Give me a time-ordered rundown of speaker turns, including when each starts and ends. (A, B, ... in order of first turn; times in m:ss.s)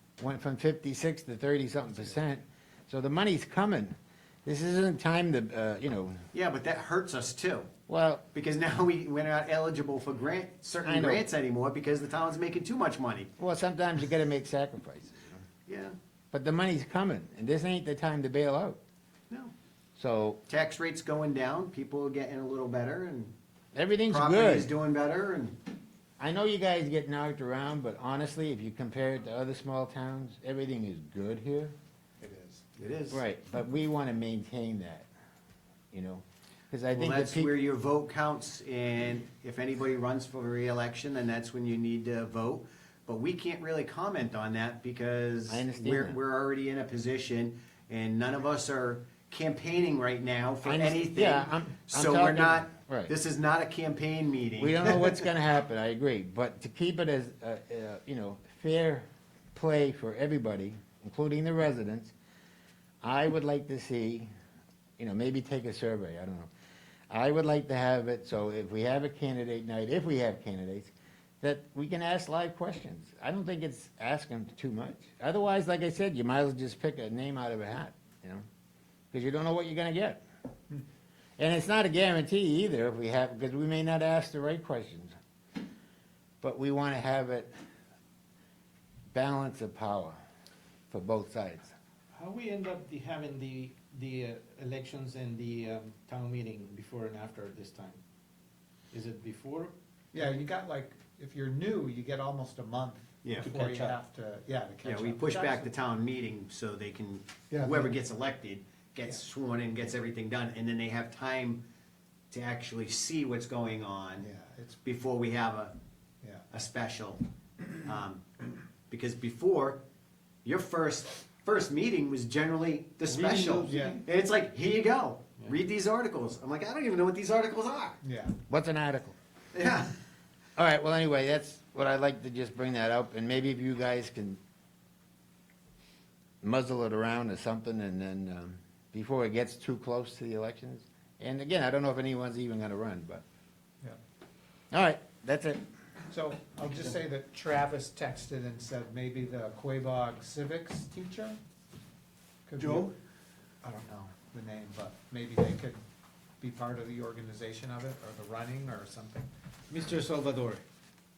0:00.2-0:06.2 A
0:06.3-0:07.7 B
0:07.9-0:08.2 A
0:08.3-0:13.3 B
0:10.8-0:11.3 A
0:13.4-0:15.4 A
0:15.7-0:15.9 B
0:16.3-0:18.8 A
0:20.0-0:20.4 A
0:20.5-0:23.3 B
0:23.8-0:24.7 A
0:24.1-0:25.6 B
0:26.2-0:31.7 A
0:32.2-0:32.6 C
0:32.8-0:33.2 B
0:33.1-0:35.1 A
0:35.9-0:37.5 A
0:36.9-0:55.2 B
0:45.5-0:46.2 A
0:50.6-0:53.1 A
0:54.6-1:02.1 A
1:03.0-1:04.3 A
1:05.0-1:06.5 A
1:07.1-1:18.4 A
1:19.1-1:20.2 A
1:21.4-1:25.2 A
1:26.4-1:27.5 A
1:29.1-1:30.2 A
1:30.9-1:31.7 A
1:32.1-1:38.0 D
1:38.9-1:39.7 D
1:40.1-1:45.7 C
1:43.2-1:43.5 B
1:43.4-1:44.0 D
1:44.8-1:51.6 B
1:47.5-1:47.9 C
1:52.3-1:54.3 B
1:54.2-1:54.8 C
1:54.8-1:55.8 B
1:56.5-1:57.2 B
1:57.8-1:58.3 B
1:58.9-1:59.8 B
2:00.4-2:08.0 B
2:03.1-2:04.0 D
2:03.6-2:04.0 C
2:08.0-2:08.4 C
2:08.5-2:09.2 A
2:09.5-2:09.9 B
2:10.6-2:14.4 A
2:16.4-2:23.2 A
2:24.7-2:25.6 A
2:26.1-2:31.4 C
2:32.5-2:32.9 C
2:32.6-2:32.9 D
2:33.6-2:35.8 C
2:36.4-2:39.3 C
2:39.7-2:40.6 D